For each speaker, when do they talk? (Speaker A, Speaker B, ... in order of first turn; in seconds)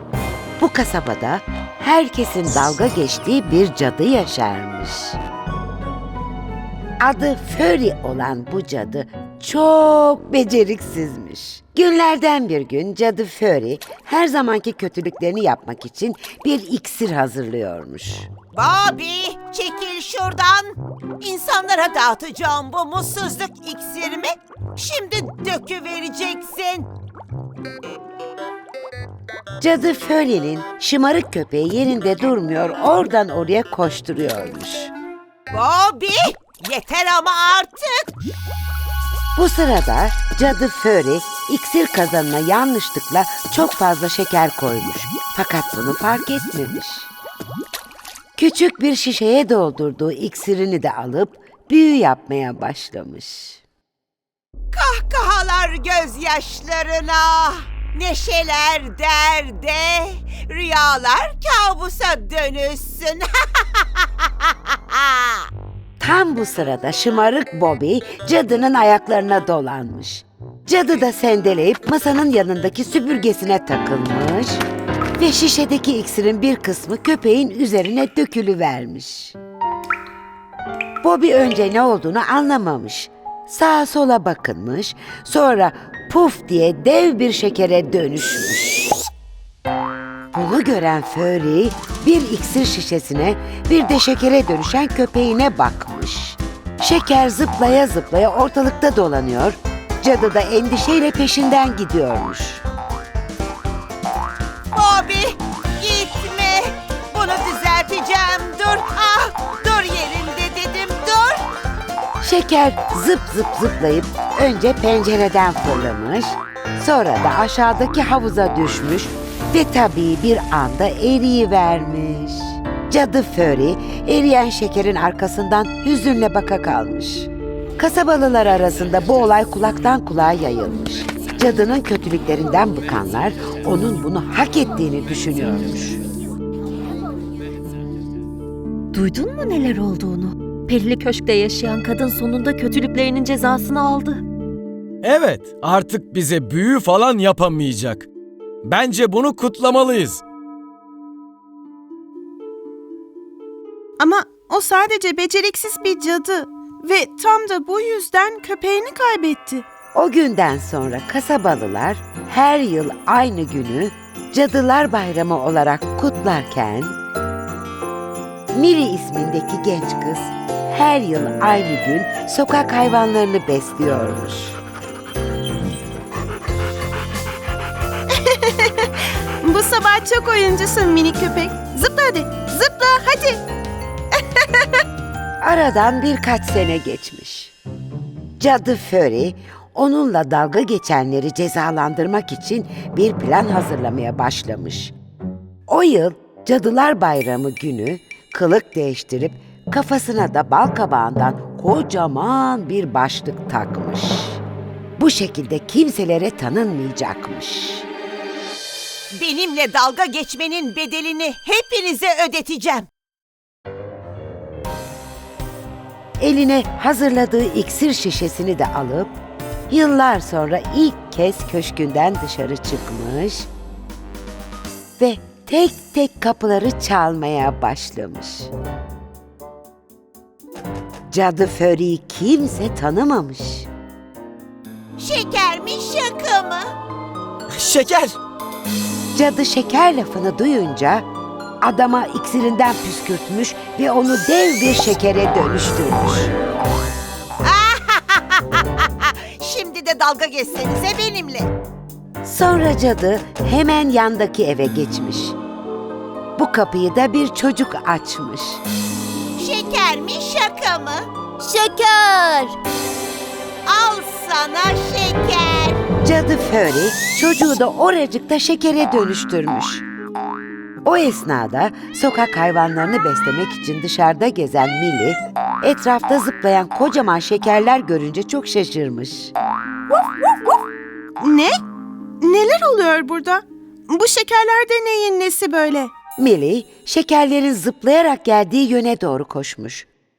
Speaker A: 0.6-5.2, 7.0-18.3, 29.6-34.9, 39.4-47.1, 48.4-53.6, 66.0-74.6, 75.2-79.4, 81.0-88.9, 90.3-102.6, 112.2-136.0, 159.9-167.0, 168.5-174.6, 185.4-187.6, 188.4-194.9, 195.7-204.4, 205.0-207.9, 216.2-219.2, 219.7-223.5, 225.0-228.5, 231.1-233.7, 239.2-241.1, 241.6-246.3, 252.2-255.4, 256.4-258.6, 266.0-269.8, 270.9-279.3, 286.2-289.9
Speaker B: 18.5-26.9, 35.5-38.1, 54.7-65.5, 104.7-111.5, 209.2-212.9, 235.0-236.7, 247.4-251.5, 259.4-262.6, 263.7-265.8
Speaker C: 138.9-144.2
Speaker D: 145.0-148.1, 148.6-150.2, 237.5-238.2
Speaker E: 154.0-159.7, 178.1-183.4, 184.1-184.8, 281.2-281.5, 282.2-285.9